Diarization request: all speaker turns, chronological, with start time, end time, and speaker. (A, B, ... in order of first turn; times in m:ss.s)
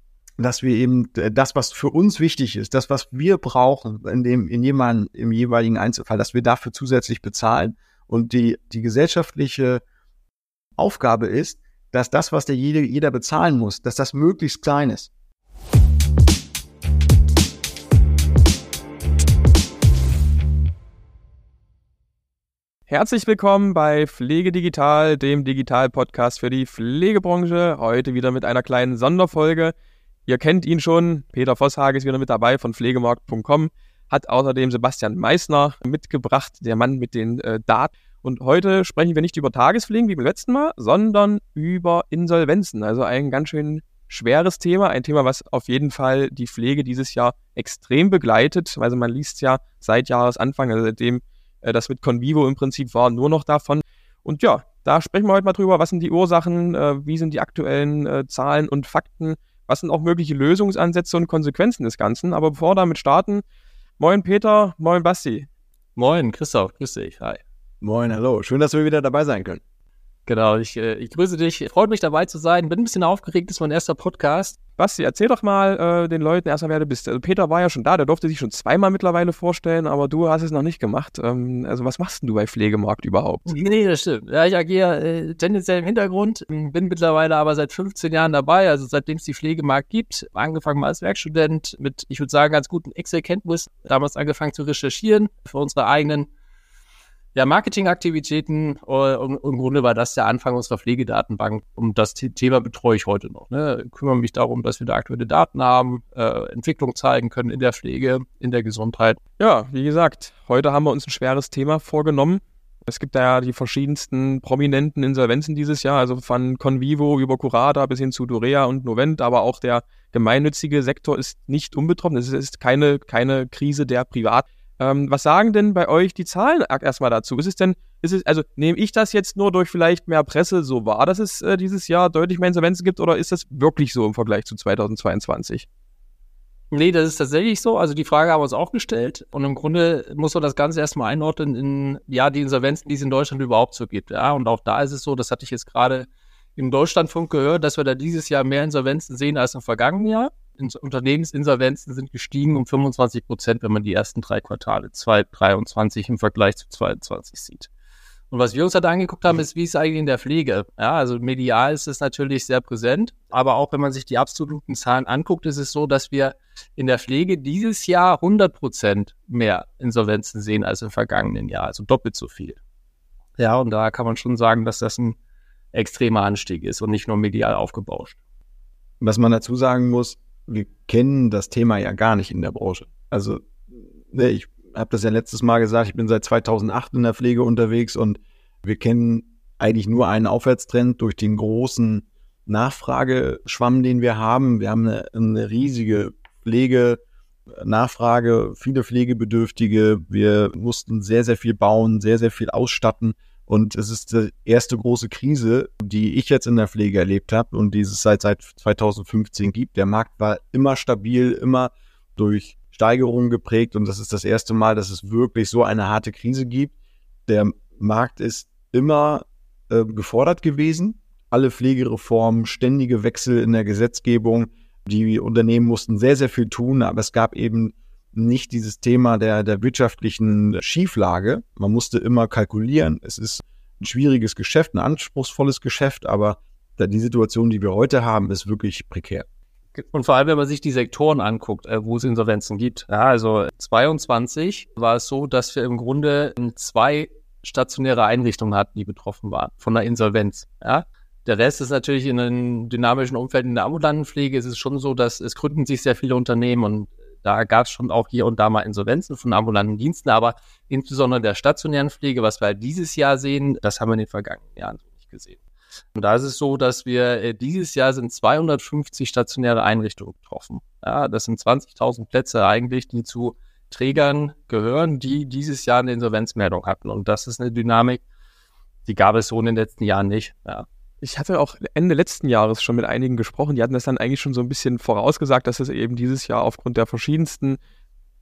0:00.4-0:09.8 A
0:10.8-0:15.1 A
0:22.9-0:29.7 B
0:30.3-1:03.4 B
1:04.0-1:05.5 B
1:06.0-1:07.4 C
1:07.8-1:09.6 A
1:10.2-1:14.6 C
1:14.8-1:23.5 B
1:23.5-1:36.3 C
1:37.3-1:49.2 C
1:49.4-2:15.6 B
2:16.7-2:37.7 C
2:38.3-2:52.6 C
2:53.4-2:55.2 C
2:55.7-2:58.2 C
2:59.0-3:03.4 A
3:04.1-3:17.0 A
3:17.5-3:36.7 A
3:37.3-3:59.2 A
3:59.7-4:25.4 C
4:25.9-4:38.0 C
4:38.8-4:40.6 C
4:41.0-4:47.6 B